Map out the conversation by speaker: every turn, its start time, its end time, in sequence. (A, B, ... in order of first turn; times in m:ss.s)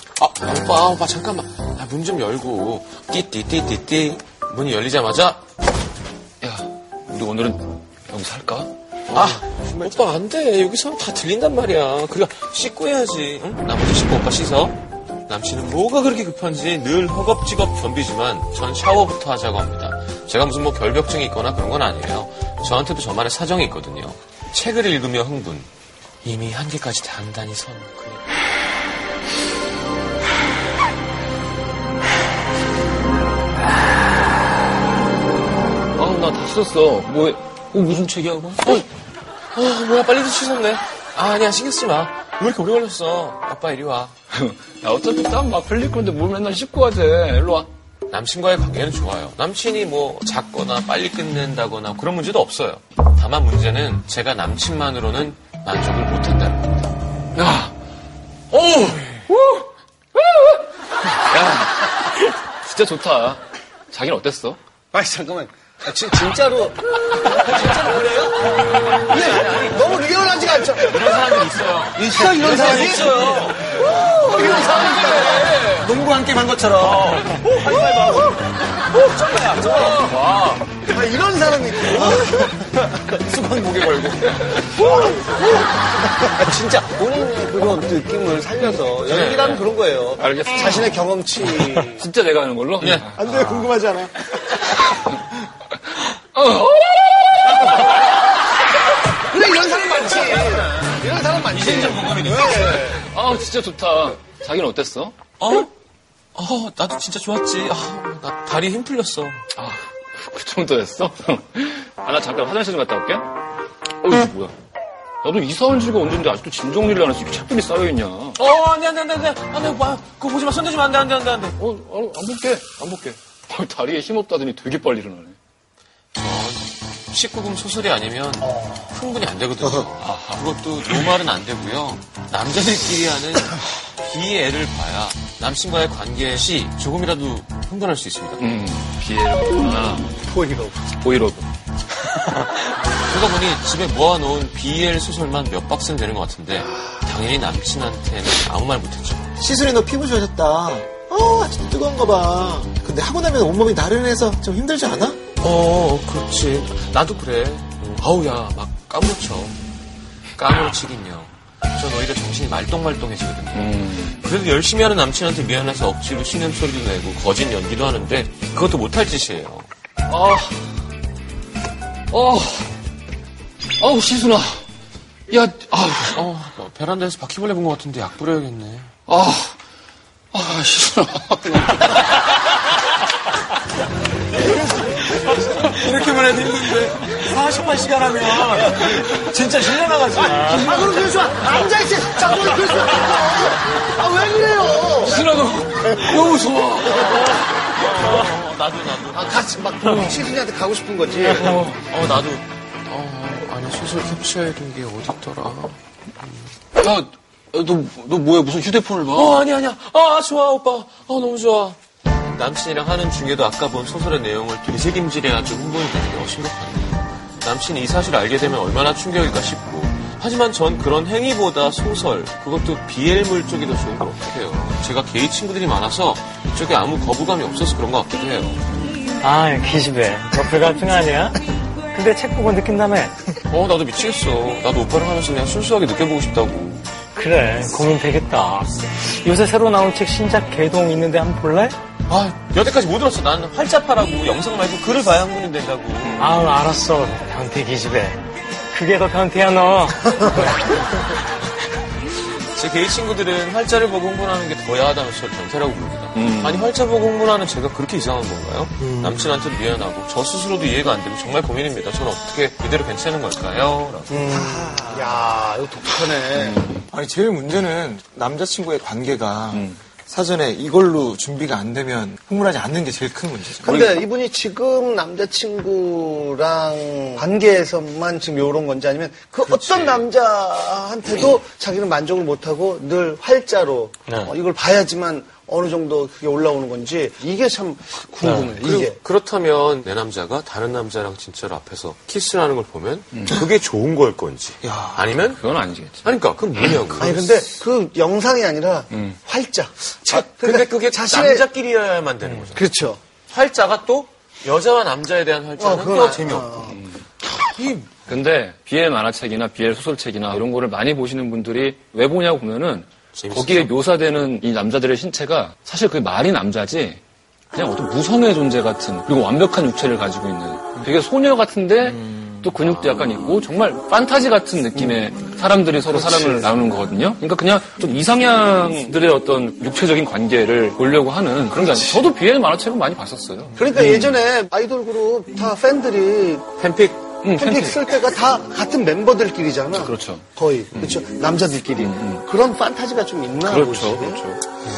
0:00.2-0:05.4 A
0:06.4-0:09.4 B
0:09.1-0:14.8 A
0:15.3-0:25.7 A
0:26.2-0:28.2 A
0:36.0-0:38.8 B
0:39.5-0:44.2 A
0:44.3-0:47.7 B
0:48.1-0:56.9 A
0:57.4-0:57.7 B
0:58.5-0:59.6 B
1:00.3-1:00.6 B
1:01.2-1:04.6 B
1:04.9-1:07.6 C
1:07.2-1:10.1 A
1:08.9-1:11.4 C
1:10.7-1:13.9 A
1:12.0-1:18.3 C
1:14.0-1:15.9 B
1:14.5-1:15.5 A
1:15.8-1:17.1 D
1:16.7-1:18.5 A
1:19.0-1:20.7 A
1:19.2-1:20.0 C
1:20.8-1:23.4 C
1:24.0-1:24.3 B
1:24.6-1:32.1 C
1:28.9-1:29.8 A
1:30.2-1:33.2 B
1:32.8-1:33.1 A
1:33.2-1:34.8 D
1:33.2-1:34.1 C
1:36.3-1:38.0 B
1:39.2-1:43.1 C
1:41.5-1:43.0 A
1:43.0-1:45.2 B
1:45.4-1:45.7 A
1:46.4-1:49.4 A
1:49.6-1:53.3 B
1:54.0-1:54.5 B
1:55.2-1:58.4 B
1:58.4-2:01.6 A
2:01.6-2:05.4 B
2:06.2-2:18.4 A
2:08.4-2:09.2 C
2:10.0-2:10.4 B
2:18.4-2:20.1 B
2:20.2-2:20.8 C
2:21.0-2:21.5 B
2:22.9-2:29.4 A
2:29.4-2:35.2 D
2:35.4-2:39.6 A
2:40.4-2:49.7 A
2:43.5-2:44.2 B
2:50.1-2:50.7 B
2:52.1-2:52.8 B
2:53.8-2:54.6 B
2:55.3-2:56.3 B
2:56.1-2:58.9 A
2:59.1-2:59.6 B
3:00.3-3:02.4 B
3:05.6-3:10.7 D
3:05.9-3:06.8 B
3:10.2-3:15.3 C
3:10.3-3:10.7 E
3:15.0-3:17.6 B
3:16.8-3:19.6 A
3:19.1-3:21.7 C
3:21.2-3:26.4 A
3:21.5-3:21.8 B
3:26.8-3:29.4 B
3:29.1-3:48.6 A
3:49.2-3:53.3 E
3:53.5-3:56.9 A
3:57.2-4:01.8 E
4:02.1-4:06.5 A
4:06.2-4:11.0 E
4:12.3-4:24.1 A
4:16.1-4:16.7 B
4:18.8-4:19.3 C
4:24.1-4:26.6 C
4:24.3-4:25.2 D
4:26.4-4:26.8 B
4:26.9-4:33.8 D
4:33.6-4:49.0 C
4:33.7-4:34.0 B
4:39.4-4:40.1 A
4:44.1-4:44.3 E
4:48.2-4:55.5 A
4:54.6-4:55.1 D
4:55.4-4:56.1 B
4:56.0-4:57.3 A
4:57.0-5:01.5 C
4:58.9-4:59.2 B
5:00.1-5:02.7 A
5:02.5-5:03.0 C
5:03.3-5:06.7 A
5:05.6-5:06.8 C
5:06.7-5:07.0 B
5:07.4-5:08.0 A
5:08.0-5:17.0 B
5:13.1-5:13.7 A
5:17.5-5:34.1 B
5:21.8-5:22.5 D
5:22.6-5:23.4 A
5:25.9-5:26.5 C
5:33.6-5:36.6 C
5:36.6-5:37.2 A
5:37.2-5:37.8 B
5:37.3-5:44.2 C
5:39.8-5:41.0 B
5:41.8-5:42.2 B
5:43.4-5:44.4 B